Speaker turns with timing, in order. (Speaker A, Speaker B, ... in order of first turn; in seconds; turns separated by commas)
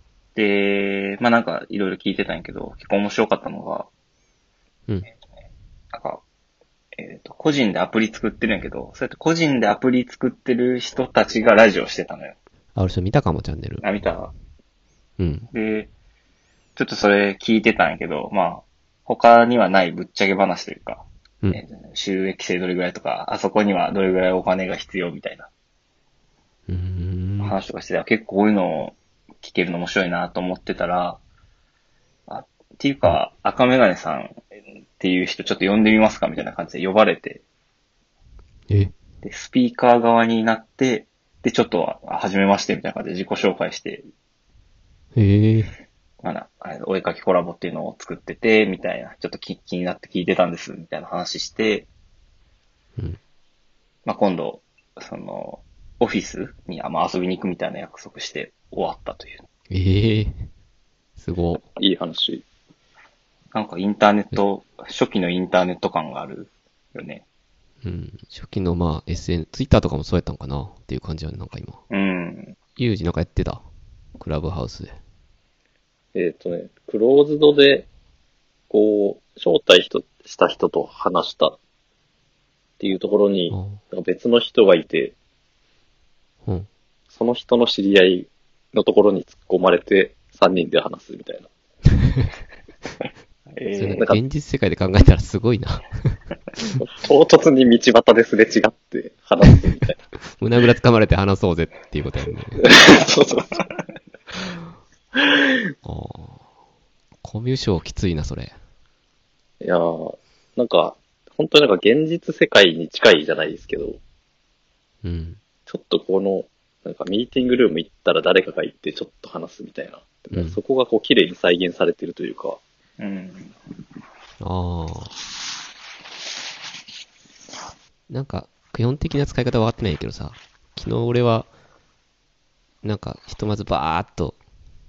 Speaker A: 0.3-3.9, Speaker A: 5.9-6.2, Speaker A: 7.0-12.3, Speaker B: 12.7-13.8, Speaker A: 13.8-14.3, Speaker B: 15.2-15.5, Speaker A: 15.5-15.9, Speaker A: 16.8-25.5, Speaker B: 26.7-27.6, Speaker A: 27.4-31.2, Speaker A: 32.3-34.4, Speaker A: 35.0-37.4, Speaker B: 38.7-38.9, Speaker A: 39.2-44.0, Speaker B: 45.1-45.7, Speaker A: 46.2-51.9, Speaker A: 54.0-59.4, Speaker B: 59.7-60.5, Speaker B: 61.2-61.6, Speaker C: 61.8-62.4, Speaker A: 63.5-67.2, Speaker B: 67.8-71.8, Speaker A: 71.9-72.5, Speaker B: 72.8-73.6, Speaker B: 74.2-74.9, Speaker C: 76.1-77.9, Speaker C: 78.7-81.6, Speaker C: 82.8-85.1, Speaker B: 83.5-83.8, Speaker C: 87.1-91.5, Speaker A: 93.5-94.1, Speaker B: 93.7-96.2, Speaker C: 96.8-100.0, Speaker B: 100.4-102.6, Speaker C: 102.6-103.5, Speaker B: 105.8-106.4, Speaker B: 107.2-108.5, Speaker C: 109.6-114.0, Speaker B: 115.0-115.4, Speaker C: 115.7-122.6, Speaker B: 120.3-120.6, Speaker A: 123.0-123.5, Speaker B: 124.4-125.1, Speaker B: 128.1-131.5, Speaker B: 132.8-134.4